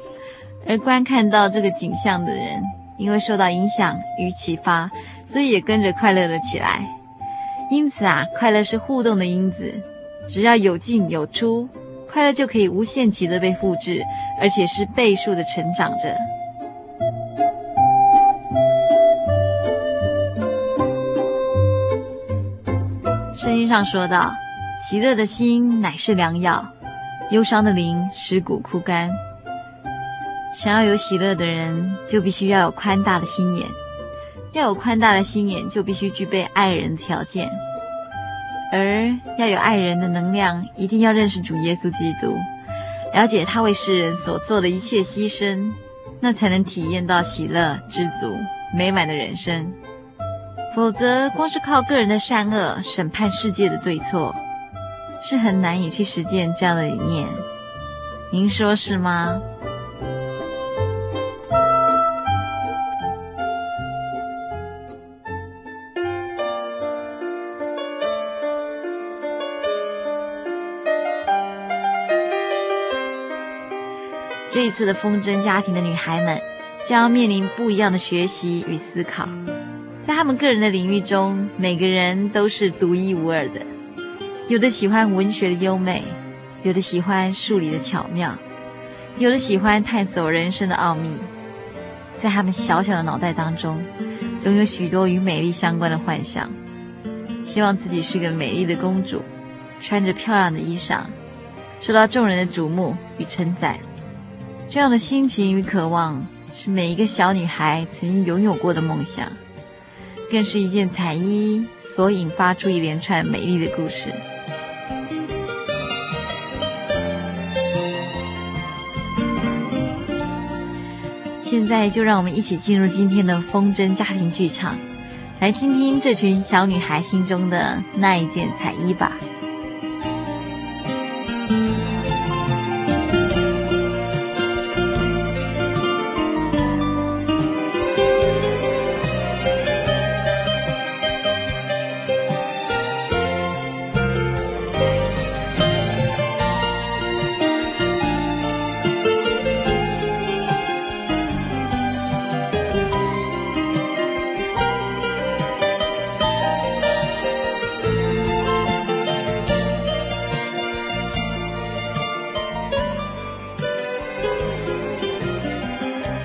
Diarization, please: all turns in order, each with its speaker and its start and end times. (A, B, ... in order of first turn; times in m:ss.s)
0:00.6-0:06.9 A
0:07.7-0:16.2 A
0:23.3-0:26.7 A
0:27.3-0:29.2 A
0:30.5-0:33.8 A
0:34.5-0:37.6 A
0:38.7-0:42.5 A
0:43.1-0:49.8 A
0:50.7-0:54.4 A
0:55.2-0:57.4 A
0:58.3-0:59.4 A
1:14.5-1:19.3 A
1:20.0-1:23.7 A
1:24.5-1:28.4 A
1:29.2-1:31.3 A
1:32.2-1:36.6 A
1:37.4-1:39.3 A
1:39.8-1:41.1 A
1:41.8-1:43.8 A
1:44.7-1:49.4 A
1:50.3-1:54.2 A
2:01.4-2:04.8 A
2:05.4-2:09.2 A